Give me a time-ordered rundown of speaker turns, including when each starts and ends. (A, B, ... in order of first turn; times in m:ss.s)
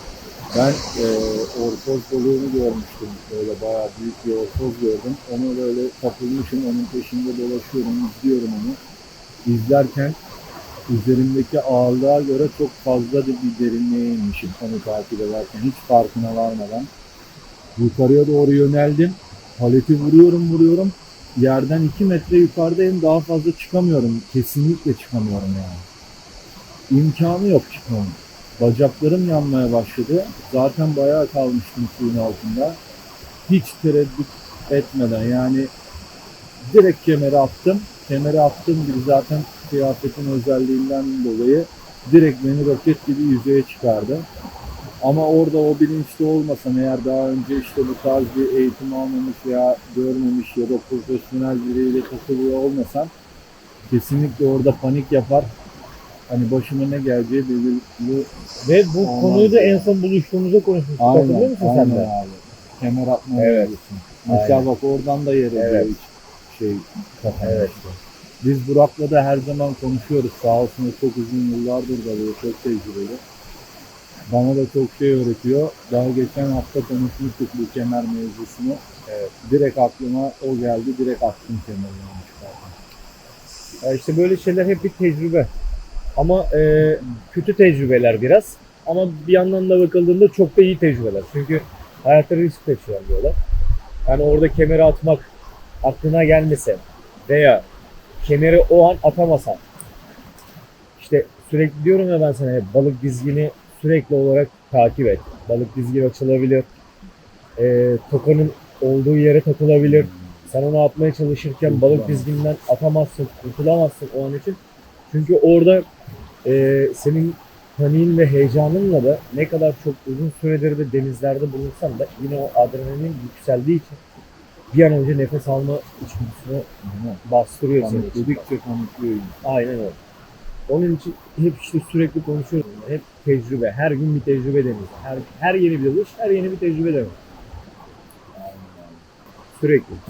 0:00.5-0:08.8 A
0:09.4-0:10.2 A
0:10.9-0:16.9 A
0:17.8-0:25.8 A
0:26.9-0:32.8 A
0:33.5-0:35.7 A
0:36.7-0:44.3 A
0:45.0-0:53.1 A
0:53.9-0:55.5 A
0:56.3-0:58.3 A
0:58.6-1:02.1 B
0:59.0-0:59.9 A
1:01.0-1:13.2 A
1:03.3-1:03.7 B
1:04.2-1:04.7 B
1:05.5-1:05.9 B
1:07.2-1:08.0 B
1:14.3-1:18.8 A
1:19.1-1:19.3 B
1:19.4-1:22.7 A
1:23.8-1:25.5 B
1:26.2-1:33.4 B
1:34.0-1:35.3 B
1:35.8-1:37.6 B
1:38.2-1:39.6 B
1:41.0-1:46.7 B
1:47.6-1:54.6 B
1:51.6-1:52.3 A
1:55.1-1:55.9 B
1:56.4-2:04.0 B
2:04.7-2:08.4 B
2:06.9-2:07.2 A
2:07.8-2:09.4 A
2:09.4-2:10.0 B
2:10.7-2:17.2 B
2:18.3-2:19.0 A
2:19.6-2:20.0 B